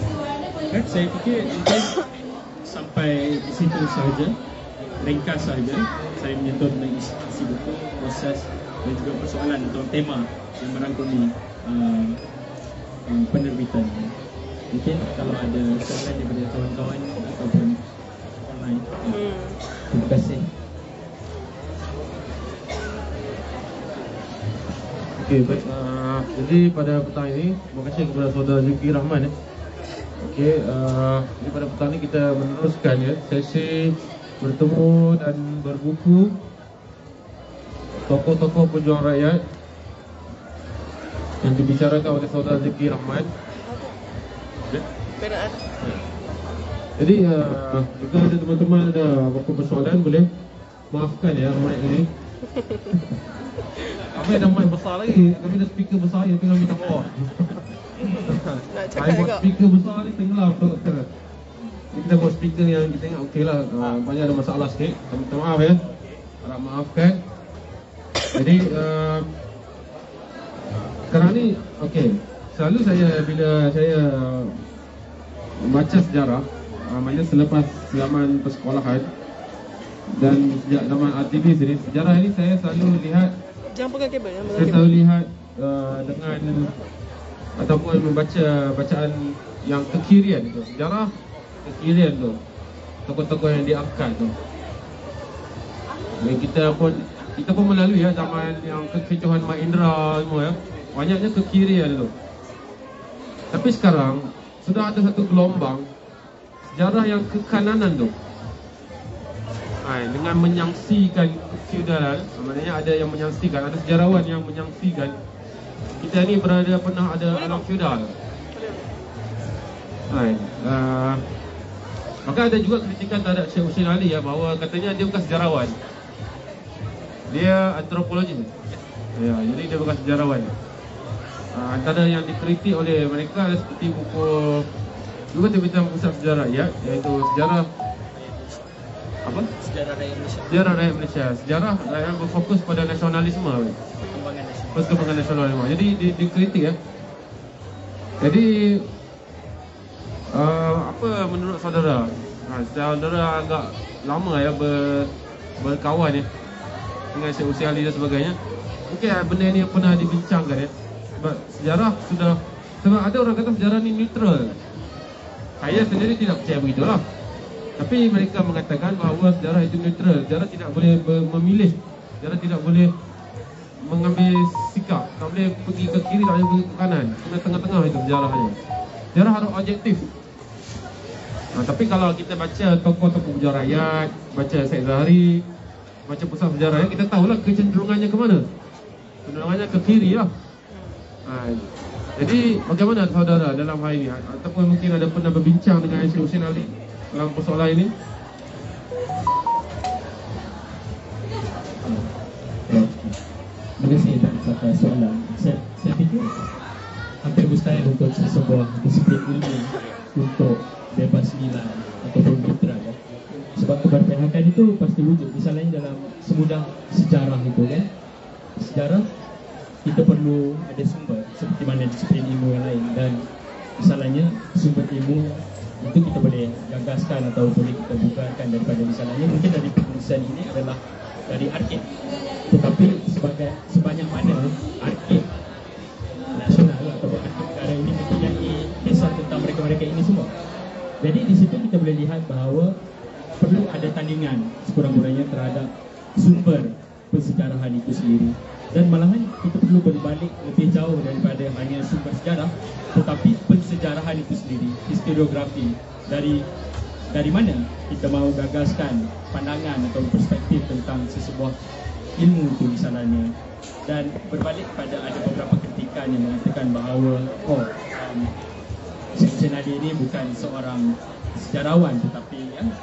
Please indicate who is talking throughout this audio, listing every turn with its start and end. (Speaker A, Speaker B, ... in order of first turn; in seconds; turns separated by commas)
Speaker A: 0.7-2.0, Speaker A: 2.6-4.3, Speaker A: 5.0-12.2, Speaker A: 13.1-14.1, Speaker A: 14.7-17.8, Speaker A: 18.4-19.2, Speaker B: 19.1-19.6, Speaker A: 19.9-20.5, Speaker C: 25.2-29.3, Speaker C: 30.2-36.3, Speaker C: 38.0-39.4, Speaker C: 41.4-43.3, Speaker B: 43.6-43.9, Speaker B: 45.2-45.7, Speaker C: 47.0-50.3, Speaker C: 50.9-52.1, Speaker B: 52.5-53.0, Speaker C: 54.1-61.1, Speaker B: 58.1-59.5, Speaker C: 61.9-65.8, Speaker C: 66.4-67.2, Speaker C: 68.3-69.3, Speaker C: 71.1-74.6, Speaker C: 75.6-79.1, Speaker C: 80.1-83.3, Speaker B: 83.7-84.9, Speaker C: 84.5-86.7, Speaker C: 87.5-91.1, Speaker C: 91.6-92.4, Speaker C: 93.1-94.3, Speaker C: 96.2-102.1, Speaker C: 103.5-105.9, Speaker C: 106.7-108.1, Speaker C: 109.8-115.1, Speaker C: 116.0-118.1, Speaker B: 117.3-117.7, Speaker B: 118.5-118.9, Speaker C: 120.1-121.2, Speaker C: 122.2-125.8, Speaker C: 127.3-128.5, Speaker C: 129.2-130.5, Speaker C: 131.5-134.7, Speaker C: 135.3-137.7, Speaker A: 139.2-140.6, Speaker C: 140.5-143.8, Speaker A: 144.1-145.0, Speaker C: 144.7-146.8, Speaker C: 148.2-148.8, Speaker C: 150.3-156.2, Speaker C: 157.1-158.4, Speaker C: 158.9-164.6, Speaker C: 165.6-167.0, Speaker C: 167.8-172.9, Speaker C: 173.8-178.6, Speaker C: 179.1-180.1, Speaker C: 181.5-185.4, Speaker C: 186.1-188.4, Speaker C: 189.2-190.3, Speaker B: 190.7-191.0, Speaker C: 191.2-191.6, Speaker C: 192.2-197.9, Speaker A: 201.8-202.1, Speaker A: 202.7-203.2, Speaker A: 203.8-206.3, Speaker A: 207.2-217.9, Speaker A: 218.6-219.1, Speaker A: 219.8-223.2, Speaker A: 223.8-231.9, Speaker A: 232.5-235.3, Speaker A: 236.3-240.3, Speaker A: 241.0-242.7, Speaker A: 243.4-256.4, Speaker A: 257.1-261.5, Speaker A: 262.2-263.3, Speaker A: 263.9-268.3, Speaker A: 269.1-272.7